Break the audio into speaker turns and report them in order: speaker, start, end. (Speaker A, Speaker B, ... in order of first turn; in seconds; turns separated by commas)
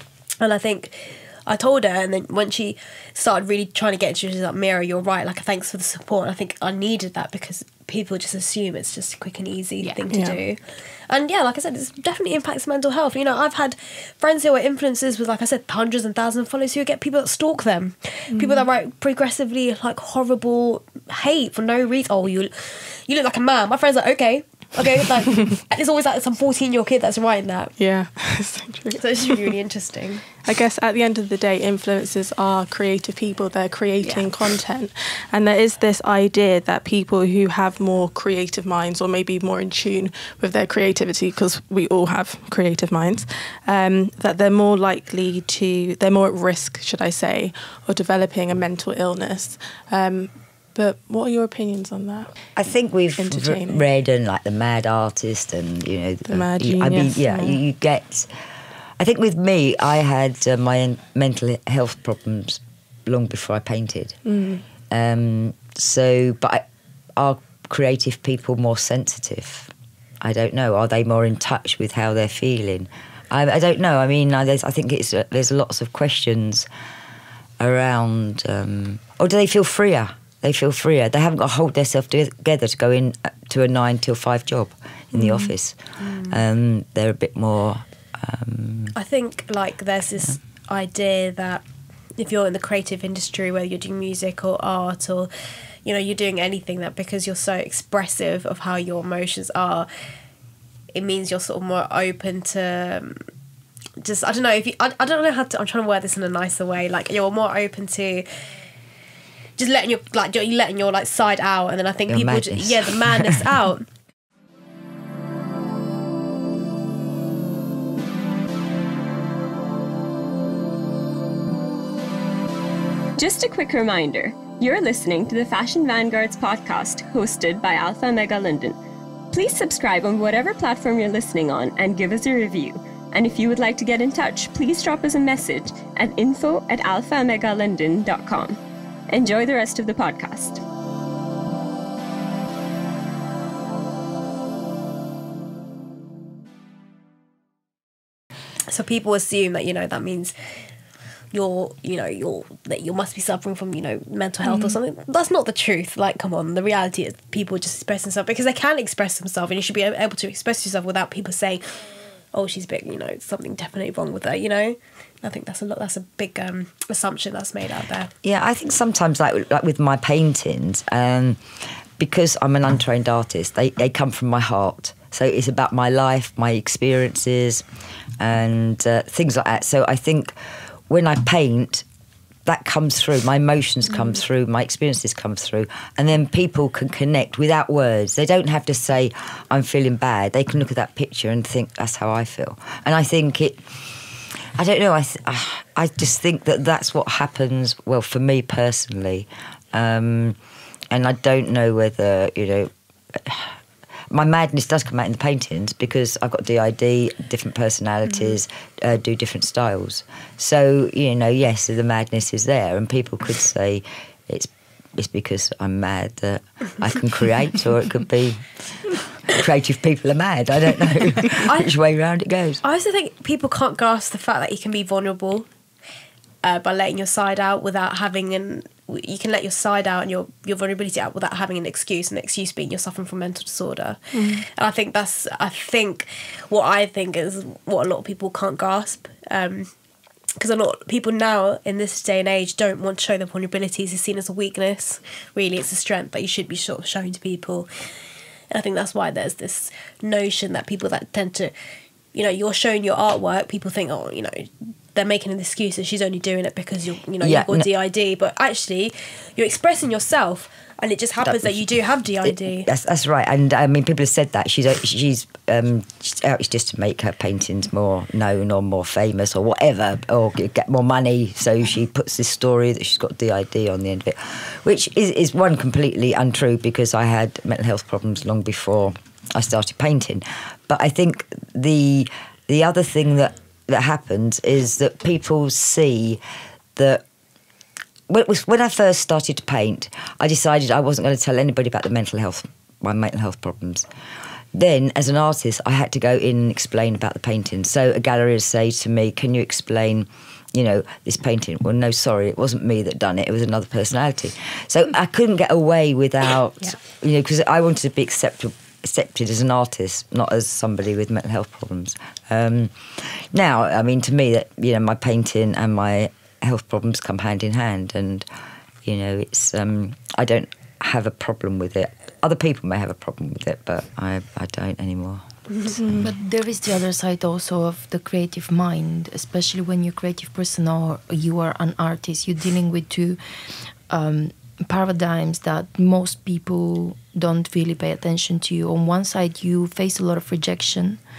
Speaker A: 0.4-27.7, Speaker B: 10.1-10.4, Speaker B: 18.3-18.6, Speaker B: 27.8-29.5, Speaker A: 29.0-30.3, Speaker B: 30.4-52.3, Speaker C: 52.6-58.3, Speaker B: 53.2-53.9, Speaker B: 56.3-57.6, Speaker C: 59.0-64.2, Speaker B: 64.3-64.6, Speaker C: 64.9-76.7, Speaker C: 77.6-89.0, Speaker A: 85.2-86.4, Speaker A: 89.0-91.6, Speaker A: 92.2-95.3, Speaker A: 95.8-99.9, Speaker A: 100.9-103.2, Speaker A: 104.0-108.3, Speaker A: 109.6-113.9, Speaker C: 112.1-113.6, Speaker D: 123.2-128.8, Speaker D: 129.3-140.6, Speaker A: 148.7-150.3, Speaker A: 151.3-161.7, Speaker A: 162.3-168.1, Speaker C: 168.2-171.4, Speaker C: 172.0-177.7, Speaker C: 178.2-180.3, Speaker C: 180.9-181.8, Speaker C: 182.5-193.6, Speaker C: 194.6-200.4, Speaker C: 200.9-203.5, Speaker C: 204.1-222.6, Speaker A: 221.4-221.7, Speaker A: 222.6-225.5, Speaker A: 226.4-239.7, Speaker B: 234.1-234.5, Speaker A: 240.4-247.7, Speaker A: 248.5-251.5, Speaker A: 252.1-262.7, Speaker C: 257.2-257.7, Speaker C: 261.2-261.6, Speaker C: 262.2-286.2, Speaker C: 286.8-287.0, Speaker C: 288.1-293.9, Speaker C: 294.6-318.3, Speaker C: 318.8-326.0, Speaker B: 325.8-326.1, Speaker E: 326.0-333.2, Speaker E: 333.9-341.0